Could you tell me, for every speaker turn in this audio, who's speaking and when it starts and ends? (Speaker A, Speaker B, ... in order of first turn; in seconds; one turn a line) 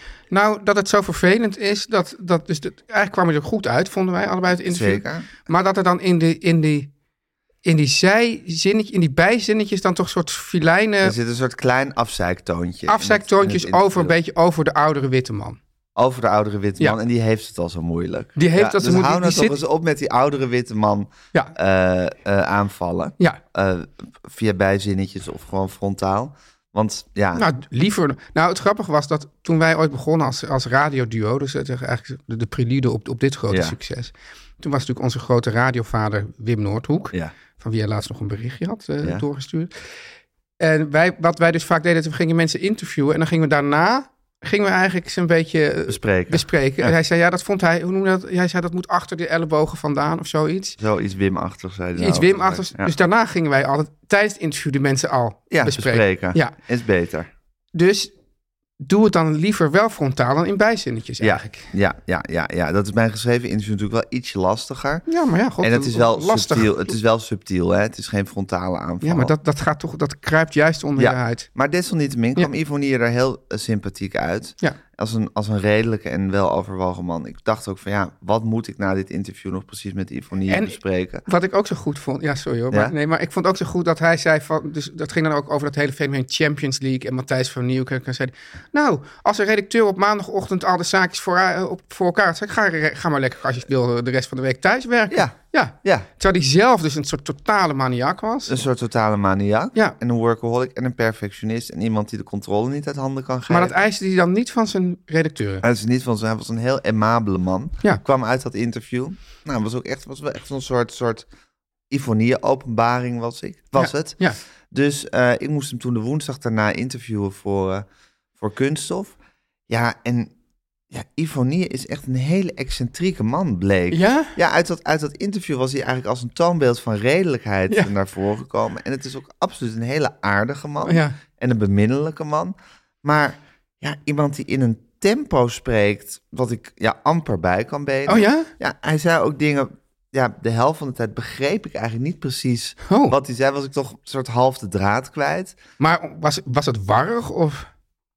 Speaker A: 0.3-6.9
Speaker B: 4.7-5.3
Speaker A: 7.7-11.2
Speaker B: 11.0-14.2
Speaker A: 12.9-15.6
Speaker B: 16.0-27.5
Speaker A: 18.4-19.6
Speaker A: 27.4-39.7
Speaker B: 33.5-33.8
Speaker A: 40.6-50.8
Speaker B: 45.9-46.9
Speaker B: 50.8-52.9
Speaker A: 52.0-56.5
Speaker B: 55.5-57.3
Speaker A: 57.7-58.1
Speaker A: 58.8-61.7
Speaker B: 61.2-65.0
Speaker A: 65.1-66.9
Speaker B: 65.6-69.3
Speaker A: 69.0-71.5
Speaker B: 71.0-81.2
Speaker A: 80.5-98.6
Speaker B: 95.1-96.1
Speaker B: 98.5-103.7
Speaker A: 103.5-105.6
Speaker B: 105.6-111.3
Speaker B: 111.9-117.9
Speaker A: 113.8-114.4
Speaker B: 118.4-119.2
Speaker B: 119.7-120.3
Speaker B: 120.9-145.6
Speaker A: 123.9-124.4
Speaker A: 130.8-131.2
Speaker A: 138.1-138.5
Speaker A: 142.9-143.2
Speaker A: 145.8-147.7